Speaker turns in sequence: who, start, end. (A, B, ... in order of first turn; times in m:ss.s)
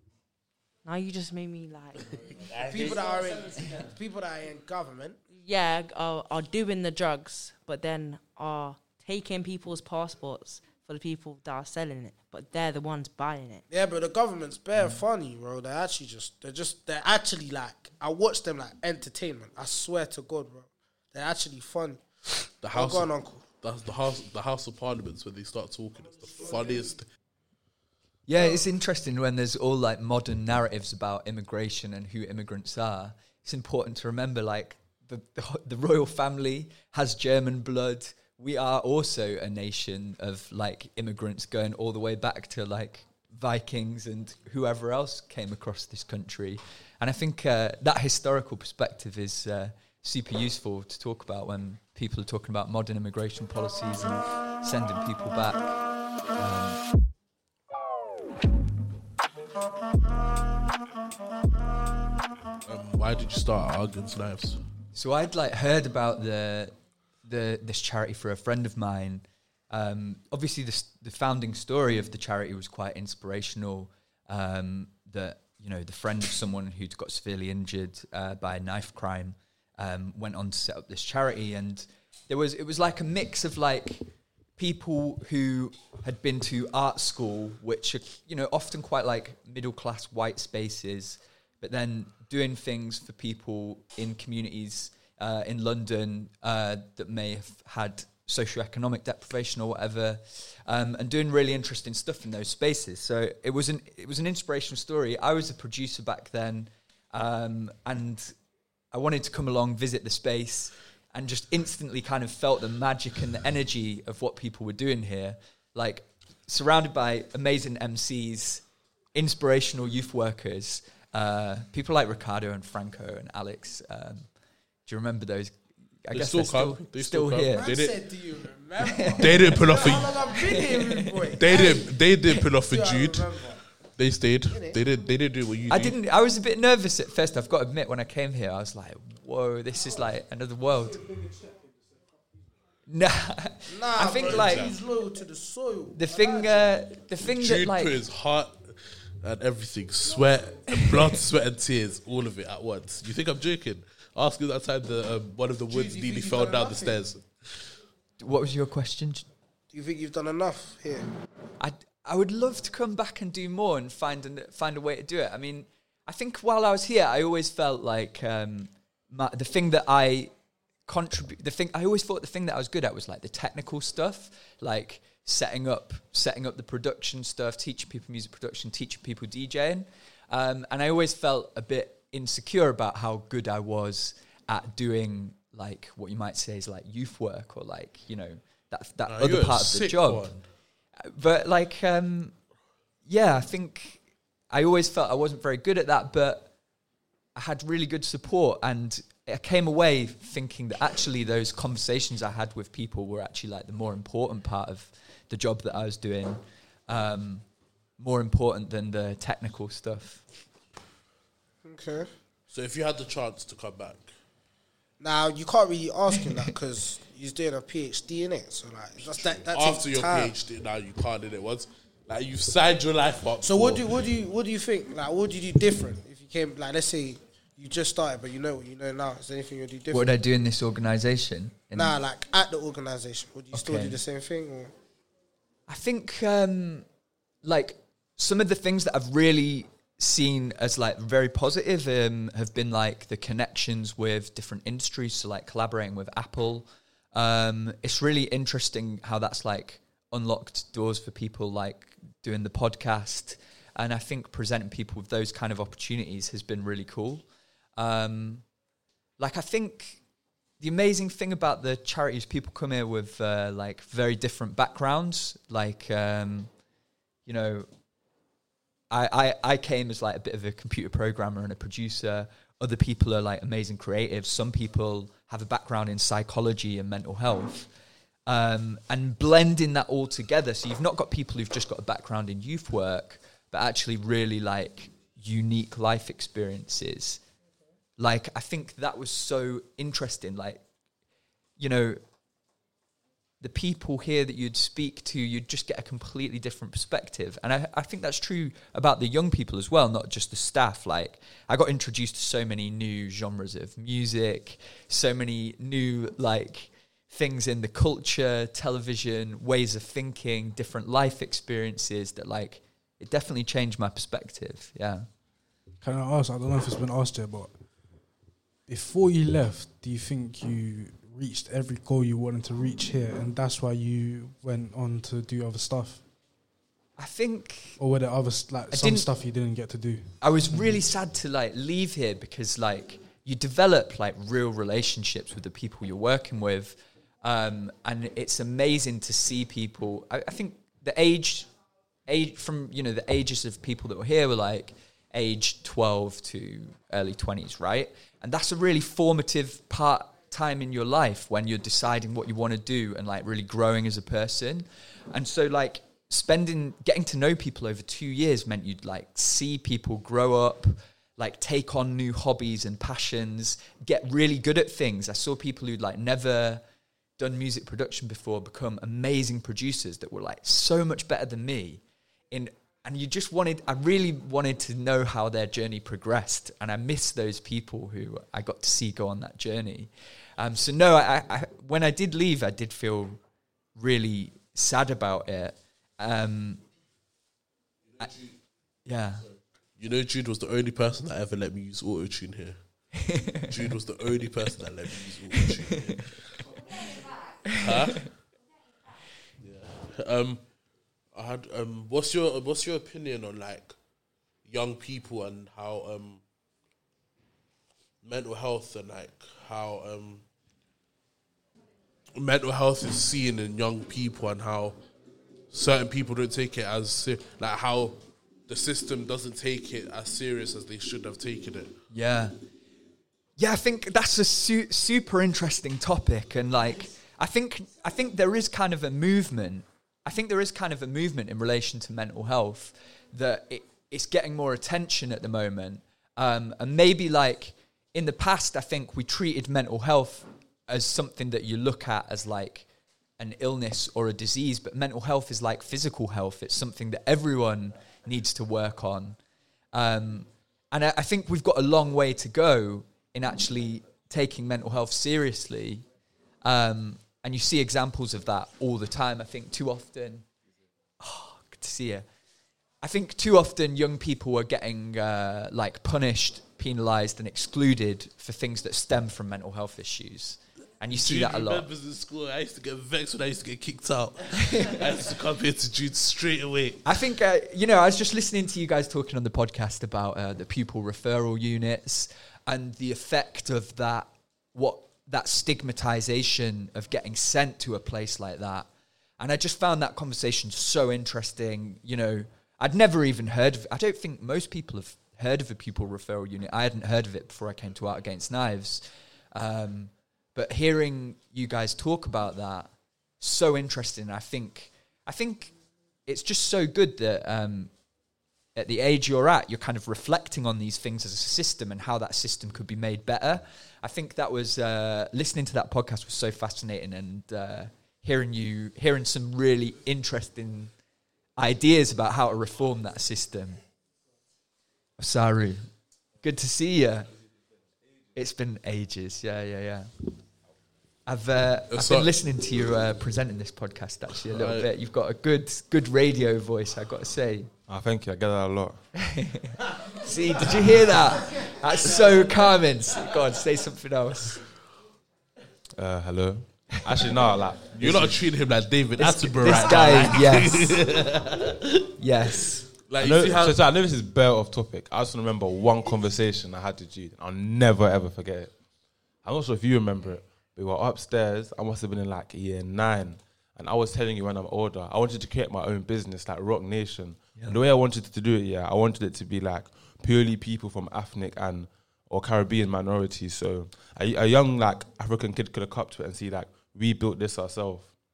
0:00.8-0:02.3 A
0:02.5-0:03.1 B
0:02.6-0:05.2 C
0:05.4-0:13.6 A
0:13.7-0:22.0 C
0:22.6-0:27.1 B
0:22.7-0:23.4 C
0:28.3-0:56.8 D
0:28.3-0:28.6 C
1:02.7-1:04.6 B
1:04.9-1:48.3 D
1:48.9-1:58.6 D
1:59.2-2:04.3 D
2:04.9-2:07.7 D
2:06.1-2:08.0 B
2:07.5-2:11.9 C
2:08.8-2:11.2 D
2:09.2-2:10.3 B
2:11.4-2:16.0 B
2:12.6-2:13.6 C
2:14.5-2:14.8 C
2:15.7-2:21.0 D
2:22.9-2:24.7 D
2:23.7-2:26.7 C
2:24.2-2:24.8 B
2:25.9-2:27.9 D
2:27.2-2:37.7 B
2:30.7-2:31.0 D
2:35.7-2:37.0 C
2:38.2-2:39.3 D
2:39.7-2:41.1 C
2:41.6-2:50.3 D
2:50.9-3:10.4 D
3:09.1-3:10.4 B
3:11.0-3:12.4 D
3:13.1-3:16.5 D
3:17.4-3:27.4 D
3:28.0-3:30.2 D
3:31.6-3:32.1 C
3:32.5-3:34.1 B
3:35.0-3:40.3 C
3:39.1-3:44.1 B
3:43.4-3:50.1 C
3:49.9-3:52.0 D
3:51.8-3:54.7 C
3:53.5-3:54.0 D
3:55.7-3:56.9 D
3:57.4-4:17.3 D
4:17.8-4:18.4 D
4:19.2-4:20.0 D
4:20.6-4:26.5 D
4:27.3-4:27.7 D
4:28.9-4:37.7 D
4:38.3-4:47.2 D
4:48.0-4:50.6 D
4:51.6-4:52.0 D
4:53.4-5:15.1 D
5:15.8-5:17.5 E
5:18.7-5:26.0 E
5:27.0-5:27.8 D
5:27.8-5:30.8 E
5:28.7-5:29.1 D
5:30.2-5:41.5 D
5:42.1-6:06.6 D
6:07.2-6:23.2 D
6:23.8-6:26.6 D
6:28.8-6:29.3 D
6:29.8-6:32.9 B
6:33.0-6:33.5 D
6:33.5-6:36.4 B
6:35.4-6:35.7 D
6:37.5-6:38.1 B
6:39.4-6:40.4 B
6:41.1-6:43.8 B
6:44.4-6:46.2 B
6:48.0-6:50.2 B
6:52.2-6:54.8 B
6:55.5-7:01.8 B
7:01.9-7:02.4 D
7:03.4-7:22.7 D
7:23.2-7:29.2 D
7:29.7-7:35.8 D
7:36.4-7:40.2 D
7:41.0-7:42.1 D
7:42.8-7:51.7 D
7:50.9-7:57.0 B
7:54.4-7:54.8 D
7:56.8-8:08.7 D
8:09.2-8:25.5 D
8:26.1-8:27.7 D
8:28.6-8:40.7 D
8:41.4-8:43.6 D
8:45.0-8:45.7 D
8:46.2-8:47.1 D
8:48.2-8:50.1 D
8:51.1-8:57.5 D
8:51.7-8:52.1 B
8:54.3-8:54.7 B
8:57.7-8:58.8 F
8:59.0-9:04.4 D
9:05.8-9:08.2 F
9:07.7-9:11.9 B
9:09.0-9:10.9 D
9:12.0-9:12.7 D
9:12.9-9:13.6 B
9:13.0-9:18.5 F
9:19.2-9:37.9 F